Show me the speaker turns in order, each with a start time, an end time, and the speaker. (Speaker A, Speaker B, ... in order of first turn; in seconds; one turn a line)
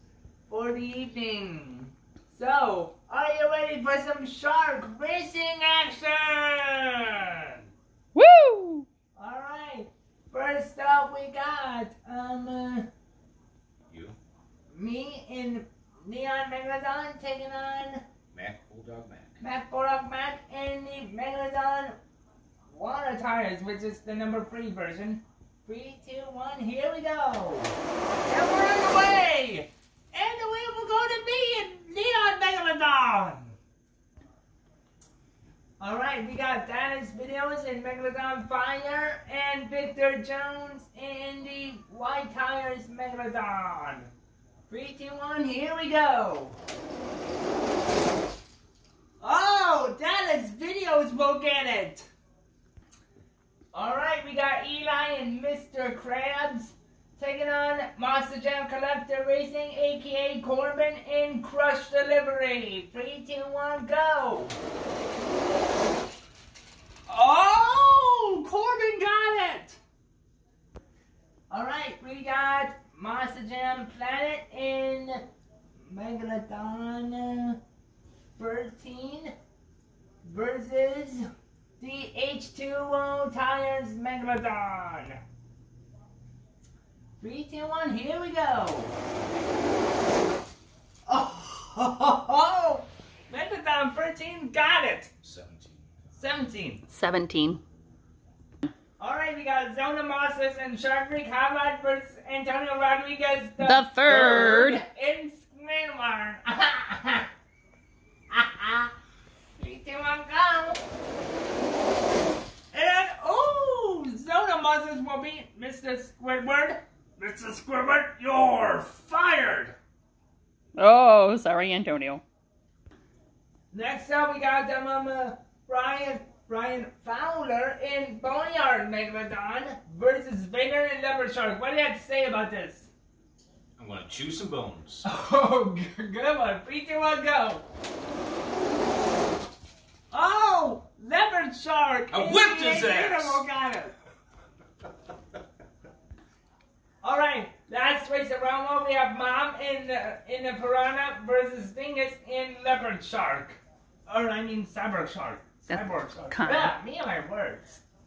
Speaker A: 0.5-7.5
Speaker B: 8.1-8.8
Speaker A: 9.1-12.9
Speaker C: 13.9-14.2
Speaker A: 14.7-18.0
Speaker C: 18.3-19.4
Speaker A: 19.4-21.9
Speaker A: 22.7-33.5
Speaker A: 35.8-44.1
Speaker A: 44.7-46.6
Speaker A: 49.2-52.1
Speaker A: 53.7-64.5
Speaker A: 67.1-69.8
Speaker A: 71.5-75.2
Speaker A: 75.8-77.6
Speaker A: 78.3-79.3
Speaker A: 80.2-81.2
Speaker A: 81.8-85.2
Speaker A: 87.2-88.9
Speaker A: 91.1-95.1
Speaker C: 95.2-95.8
Speaker A: 96.1-96.8
Speaker B: 96.9-97.6
Speaker A: 99.0-107.3
Speaker B: 103.6-104.8
Speaker A: 108.3-108.9
Speaker A: 109.6-110.8
Speaker A: 112.7-119.8
Speaker B: 120.7-122.2
Speaker A: 123.7-132.9
Speaker C: 133.8-135.1
Speaker A: 135.0-137.6
Speaker A: 140.1-143.9
Speaker C: 142.1-143.4
Speaker A: 147.0-157.8
Speaker B: 155.7-156.7